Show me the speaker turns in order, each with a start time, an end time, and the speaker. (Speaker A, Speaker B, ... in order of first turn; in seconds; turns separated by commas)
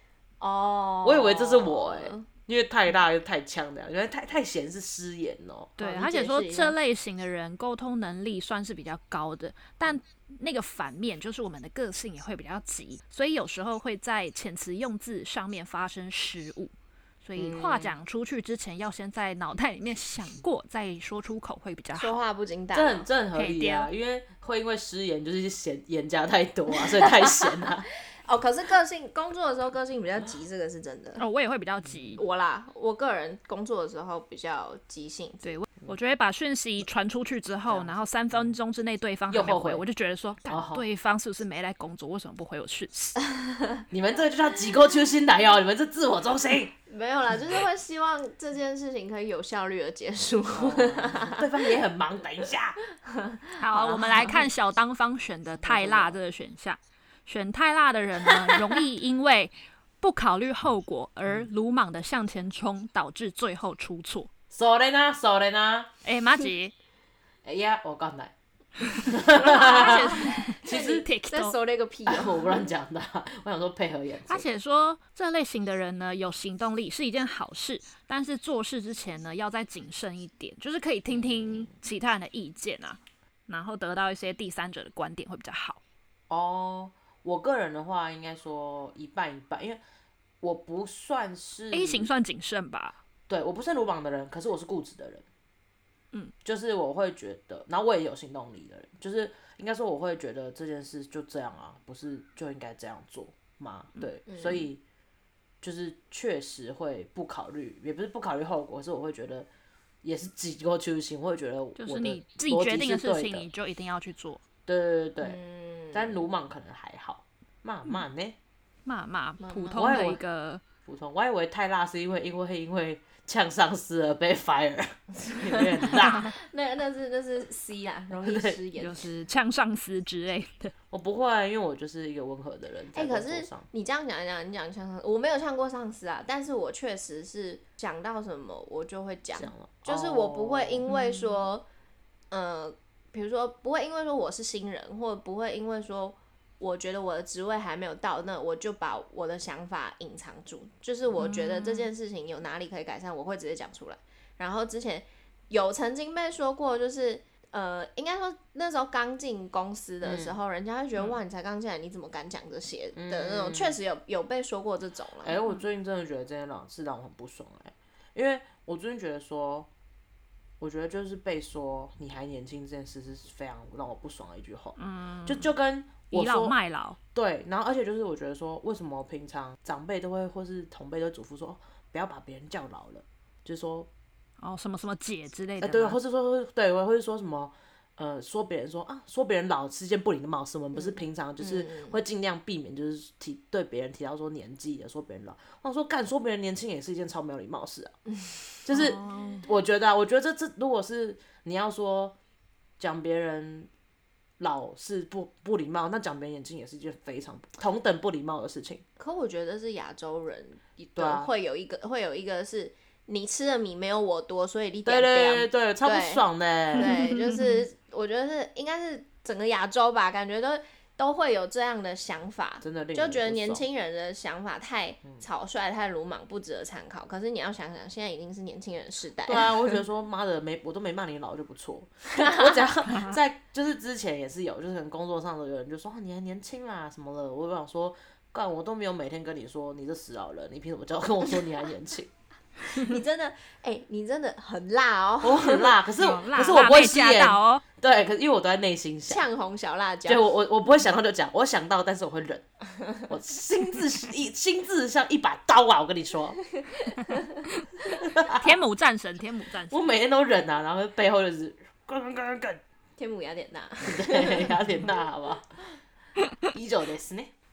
Speaker A: 0.4-2.2, Speaker B: 1.0-5.7, Speaker C: 5.8-16.7, Speaker A: 5.8-6.8, Speaker C: 17.2-22.2, Speaker B: 17.4-17.9, Speaker A: 21.9-23.1, Speaker B: 22.7-27.9, Speaker C: 23.3-23.9, Speaker A: 27.0-27.5, Speaker A: 28.1-31.2, Speaker C: 31.2-32.2, Speaker A: 32.2-35.5, Speaker C: 35.4-43.2, Speaker B: 37.7-38.5, Speaker B: 39.3-39.8, Speaker B: 40.5-40.8, Speaker A: 43.3-43.8, Speaker B: 43.9-46.7, Speaker A: 46.9-51.8, Speaker B: 50.5-52.8, Speaker A: 53.3-54.4, Speaker C: 53.6-64.3, Speaker B: 55.6-56.2, Speaker B: 64.5-65.9, Speaker C: 66.0-66.7, Speaker B: 67.4-71.0, Speaker C: 69.3-71.5, Speaker A: 69.3-72.7, Speaker B: 72.1-74.5, Speaker C: 74.3-85.8, Speaker B: 81.1-81.7, Speaker B: 86.3-89.8, Speaker B: 90.4-92.1, Speaker C: 91.7-93.0, Speaker B: 93.3-95.2, Speaker B: 96.4-104.8, Speaker A: 104.3-104.7, Speaker B: 105.6-109.5, Speaker B: 110.0-113.5, Speaker C: 111.8-114.4, Speaker B: 114.7-115.4, Speaker A: 115.2-116.2, Speaker B: 115.9-118.4, Speaker C: 118.8-120.6, Speaker A: 119.4-120.0, Speaker B: 119.7-120.2, Speaker B: 120.8-126.3, Speaker A: 125.2-129.1, Speaker B: 128.2-128.6, Speaker C: 128.8-130.7, Speaker B: 130.9-133.7, Speaker A: 132.9-141.7, Speaker B: 139.3-140.8, Speaker C: 140.9-141.4, Speaker A: 142.3-165.3, Speaker C: 151.2-151.9, Speaker B: 160.0-160.3, Speaker B: 162.9-163.8, Speaker B: 165.2-169.7, Speaker B: 170.6-176.5, Speaker C: 174.8-175.5, Speaker C: 176.1-177.0, Speaker B: 177.1-183.9, Speaker C: 184.4-186.0, Speaker B: 185.6-197.9, Speaker A: 190.7-192.0, Speaker A: 198.1-198.6, Speaker B: 198.6-202.2, Speaker C: 198.7-199.4, Speaker B: 202.8-203.7, Speaker B: 204.4-208.8, Speaker A: 209.0-229.8, Speaker B: 211.0-211.3, Speaker B: 214.8-216.9, Speaker C: 216.8-217.6, Speaker B: 222.6-223.7, Speaker B: 229.2-242.1, Speaker A: 242.6-245.7, Speaker B: 245.2-249.2, Speaker C: 246.0-247.6, Speaker A: 249.1-250.3, Speaker B: 250.0-252.4, Speaker B: 253.1-256.4, Speaker A: 256.8-257.2, Speaker B: 257.8-258.6, Speaker C: 258.3-259.8, Speaker B: 259.7-262.6, Speaker A: 263.0-264.6, Speaker B: 263.9-265.6, Speaker B: 266.5-267.3